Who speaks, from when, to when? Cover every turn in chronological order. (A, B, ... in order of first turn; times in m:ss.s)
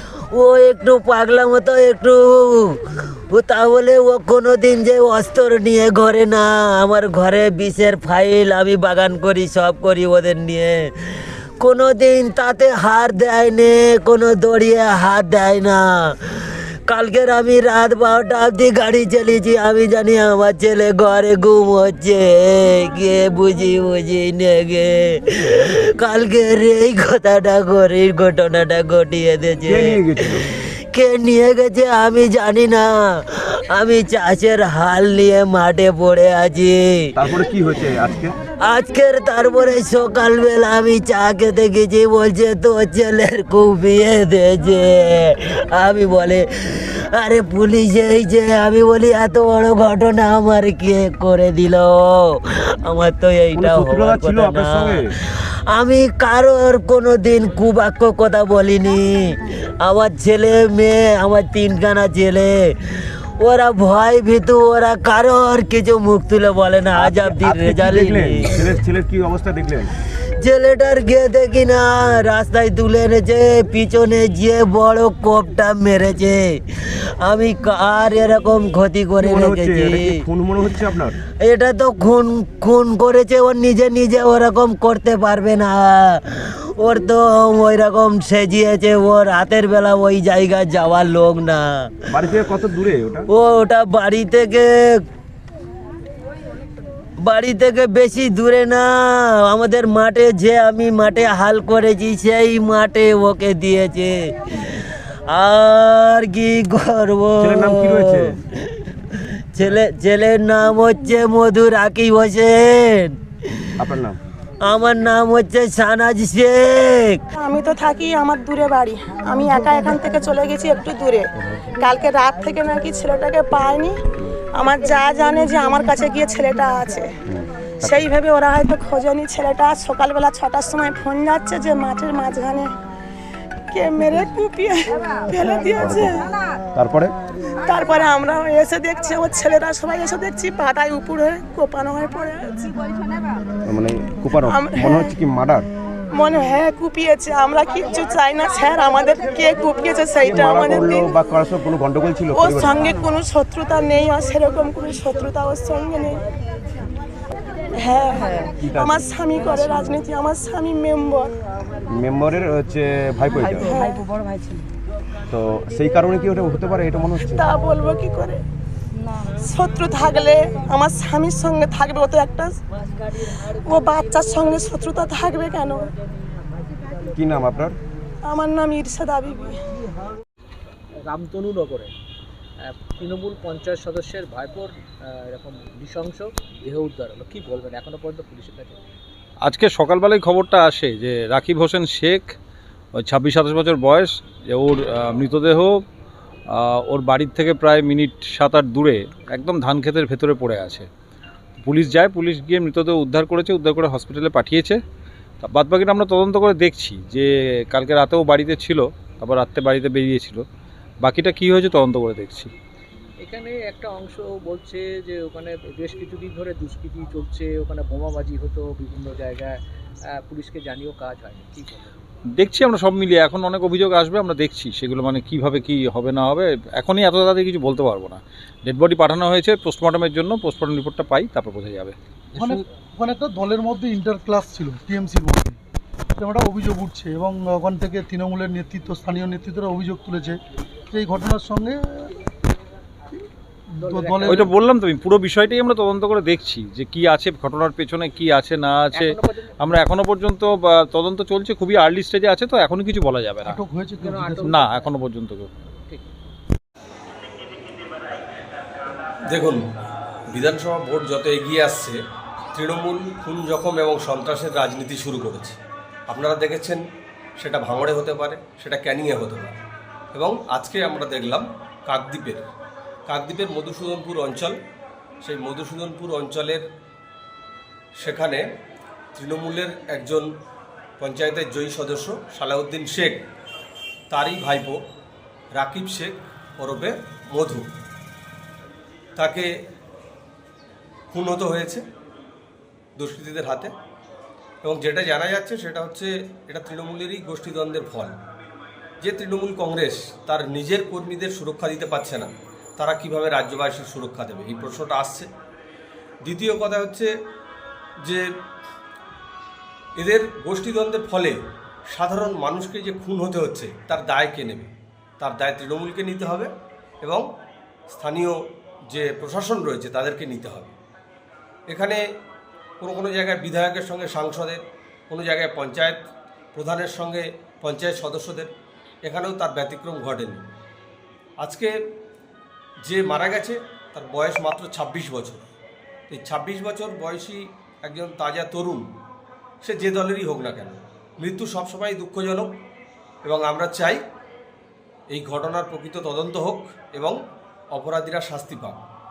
0:00.3-0:02.7 A
0:03.3-0:10.9 A
0:11.6-0:16.2 A
0:16.9-0:37.1 A
0:29.7-0:30.4 B
0:37.2-0:38.4 B
0:38.6-0:55.0 A
0:53.5-0:55.1 B
0:55.7-1:02.6 A
1:03.4-1:08.5 A
1:07.0-1:09.9 B
1:10.4-1:16.6 A
1:17.2-1:20.1 A
1:19.2-1:21.2 B
1:21.4-1:31.9 A
1:32.1-1:33.3 B
1:33.3-1:34.7 A
1:37.2-1:53.2 A
1:47.4-1:48.4 B
1:53.8-1:54.2 B
1:54.6-1:57.2 A
1:57.3-2:04.0 C
2:04.5-2:07.1 C
2:07.3-2:08.0 B
2:07.8-2:12.7 C
2:13.7-2:16.3 C
2:15.8-2:16.2 B
2:16.7-2:17.2 B
2:17.6-2:22.8 C
2:23.7-2:25.7 B
2:24.5-2:25.1 C
2:26.1-2:31.1 C
2:30.2-2:32.9 B
2:32.4-2:36.2 C
2:37.7-2:41.3 C
2:38.6-2:39.0 B
2:41.9-2:43.7 B
2:43.6-2:44.1 C
2:45.3-2:47.4 B
2:47.4-2:48.4 C
2:49.4-2:52.6 C
2:53.6-2:55.9 C
2:57.1-2:57.7 B
2:58.2-2:59.6 C
3:01.1-3:01.9 D
3:02.6-3:08.8 D
3:09.4-3:12.3 E
3:13.0-3:15.8 E
3:16.5-3:20.9 E
3:21.6-3:24.8 E
3:25.4-3:30.4 E
3:31.0-3:32.5 E
3:33.2-3:39.6 D
3:40.1-3:41.9 D
3:42.3-3:52.6 E
3:52.4-3:55.5 F
3:56.2-4:00.3 F
4:00.9-4:02.1 F
4:03.8-4:04.6 D
4:03.9-4:04.4 F
4:04.2-4:13.6 E
4:08.9-4:09.5 D
4:13.4-4:14.6 F
4:14.0-4:14.9 D
4:14.4-4:15.5 E
4:19.3-4:19.6 G
4:20.3-4:22.0 G
4:22.5-4:26.8 G
4:27.4-4:29.6 G
4:30.1-4:32.4 G
4:33.1-4:34.6 G
4:35.2-4:36.6 G
4:38.0-4:38.4 G
4:39.1-4:40.3 G
4:41.0-4:43.2 G
4:44.1-4:44.8 G
4:45.5-4:47.7 G
4:49.2-4:49.5 G
4:51.1-4:51.8 G
4:53.0-4:53.7 G
4:54.6-4:58.2 G
4:59.0-5:05.3 G
5:06.2-5:07.1 G
5:10.0-5:11.4 G
5:11.9-5:16.5 G
5:17.9-5:20.7 G
5:21.7-5:22.0 G
5:22.8-5:26.0 G
5:26.5-5:28.5 G
5:29.0-5:30.4 G
5:31.4-5:31.7 G
5:32.8-5:35.4 G
5:36.1-5:38.8 G
5:39.6-5:42.5 G
5:43.2-5:44.0 G
5:45.1-5:47.2 G
5:47.7-5:48.8 G